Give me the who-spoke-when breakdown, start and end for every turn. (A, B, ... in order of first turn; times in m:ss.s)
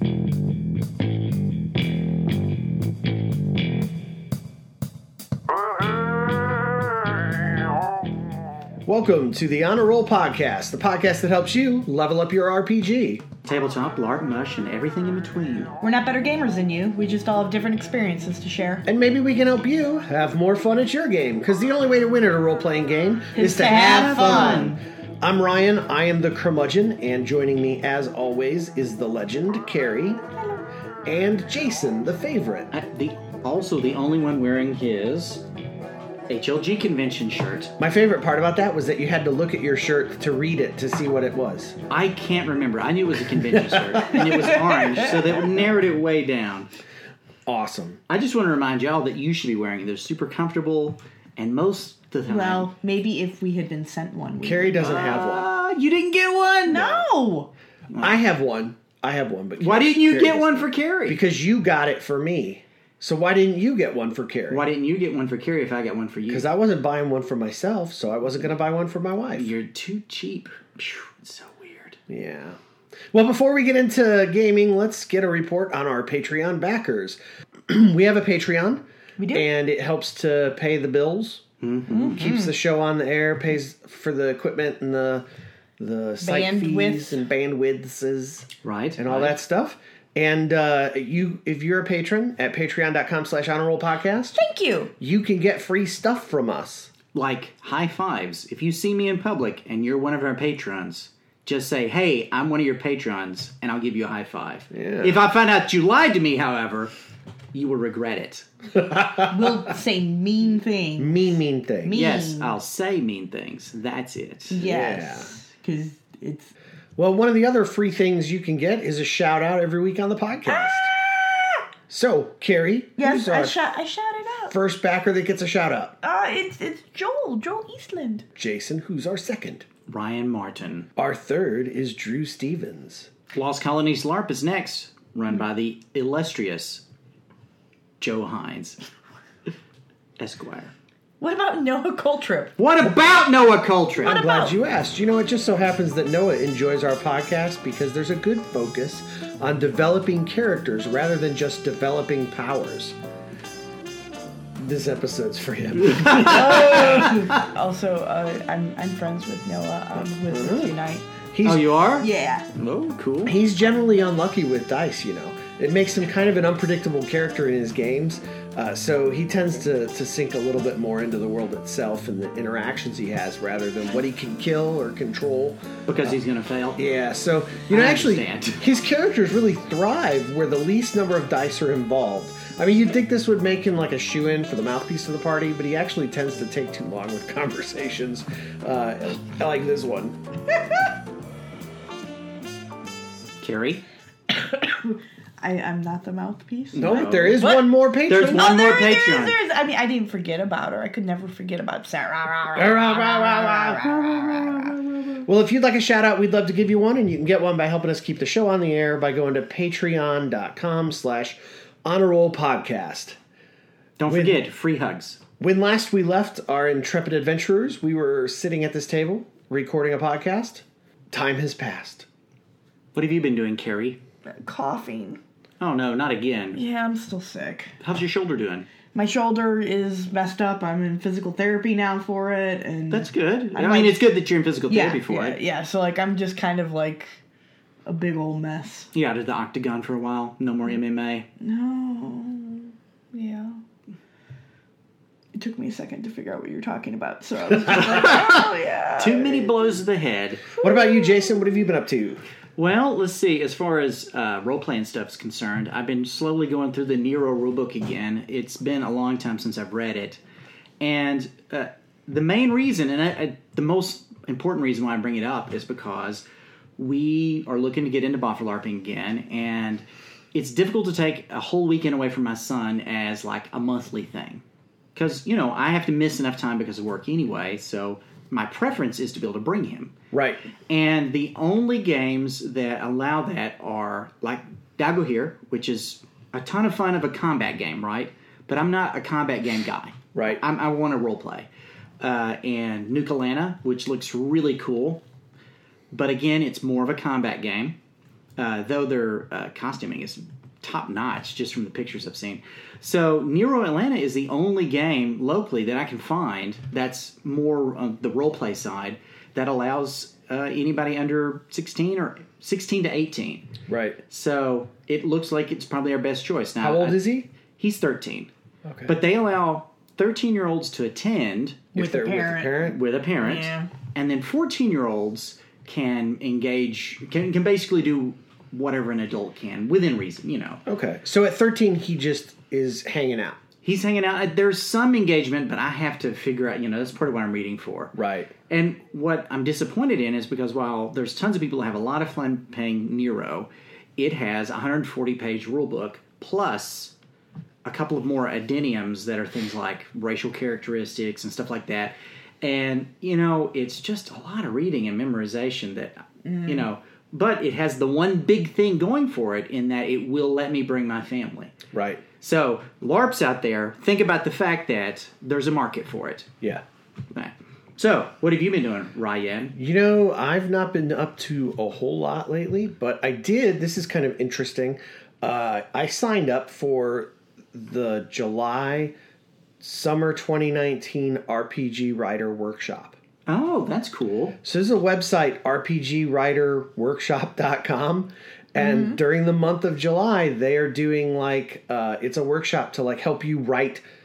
0:08.9-0:13.2 A
0:13.4-0:15.7 B
0:15.8-0:18.8 C
0:18.8-0:30.2 A
0:23.4-0:24.8 C
0:23.6-0:24.8 B
0:31.0-0:32.7 A
0:32.7-0:35.4 B
0:36.3-0:37.7 B
0:37.8-0:41.8 A
0:41.9-0:46.7 B
0:43.5-0:45.1 A
0:47.4-0:48.0 A
0:48.1-0:52.7 B
0:52.3-0:55.0 C
0:54.4-0:55.5 A
0:54.8-0:57.0 B
0:56.7-0:57.5 C
0:56.7-0:57.0 A
0:57.9-0:58.2 B
0:58.0-1:04.6 A
0:59.6-1:01.2 B
1:04.5-1:06.4 B
1:06.3-1:09.5 A
1:09.3-1:12.0 B
1:12.1-1:12.6 A
1:13.1-1:25.2 A
1:19.2-1:19.4 C
1:21.6-1:22.2 B
1:21.9-1:22.6 C
1:25.8-1:34.4 A
1:26.2-1:27.2 C
1:28.6-1:29.4 B
1:34.4-1:34.9 C
1:35.0-1:36.9 A
1:37.1-1:46.9 B
1:44.7-1:45.2 A
1:47.5-1:48.4 B
1:48.8-1:49.6 A
1:49.3-1:52.6 C
1:51.0-1:52.1 A
1:51.9-1:54.6 B
1:54.5-1:56.5 C
1:54.6-1:55.3 A
1:57.0-2:00.9 A
2:00.5-2:01.6 C
2:01.9-2:03.6 A
2:03.0-2:04.5 C
2:04.5-2:06.0 A
2:06.0-2:08.2 C
2:08.4-2:09.6 A
2:09.9-2:10.9 B
2:11.0-2:13.1 A
2:13.3-2:16.8 B
2:18.0-2:18.8 B
2:20.2-2:20.7 B
2:21.2-2:22.6 C
2:22.6-2:24.2 B
2:22.8-2:23.1 A
2:24.0-2:24.5 C
2:24.0-2:32.9 A
2:34.6-2:37.2 A
2:35.8-2:37.1 B
2:36.2-2:41.1 C
2:39.9-2:40.8 A
2:41.3-2:41.7 A
2:41.4-2:43.3 B
2:42.0-2:42.5 C
2:43.2-2:56.2 A
2:55.9-2:56.8 B
2:56.8-3:10.2 A
2:57.7-2:58.6 B
3:13.4-3:13.8 B
3:14.3-3:17.7 C
3:16.7-3:17.5 B
3:16.8-3:18.5 A
3:18.1-3:19.4 B
3:18.2-3:24.8 C
3:22.5-3:24.1 A
3:24.0-3:25.0 B
3:25.2-3:33.2 A
3:34.0-3:35.2 B
3:34.1-3:34.4 A
3:35.4-3:42.1 A
3:42.9-3:44.0 B
3:44.2-3:45.2 C
3:45.6-3:46.6 B
3:46.5-3:47.8 C
3:47.8-3:48.7 B
3:48.9-3:54.1 C
3:52.9-3:55.4 B
3:54.7-3:57.2 C
3:57.8-3:58.9 C
3:58.9-4:01.3 B
4:01.4-4:03.6 C
4:05.3-4:09.6 C
4:07.9-4:08.2 B
4:09.0-4:10.4 B
4:10.6-4:12.2 A
4:10.6-4:11.4 C
4:12.6-4:20.2 B
4:20.8-4:26.2 B
4:26.8-4:34.4 B
4:35.0-4:40.0 B
4:40.1-4:40.4 A
4:40.7-4:51.5 B
4:50.1-4:50.4 A
4:52.0-4:55.0 B
4:55.9-4:57.8 B
4:58.4-5:13.5 B
5:13.7-5:14.0 A
5:14.1-5:17.0 B
5:16.6-5:17.3 A
5:17.6-5:18.3 B
5:18.7-5:19.0 A
5:18.9-5:21.7 B
5:21.7-5:22.8 A
5:21.8-5:22.7 C
5:22.6-5:30.6 B
5:23.2-5:23.7 C
5:30.7-5:33.4 A
5:33.6-5:38.0 B
5:38.0-5:38.3 A
5:38.5-5:46.9 B
5:47.6-6:01.6 B
5:56.2-5:56.7 C
6:01.7-6:02.0 A
6:02.2-6:06.3 B
6:07.1-6:09.6 B
6:09.6-6:18.9 A
6:19.6-6:23.0 A
6:23.3-6:24.4 B
6:24.4-6:33.8 A
6:28.6-6:29.0 C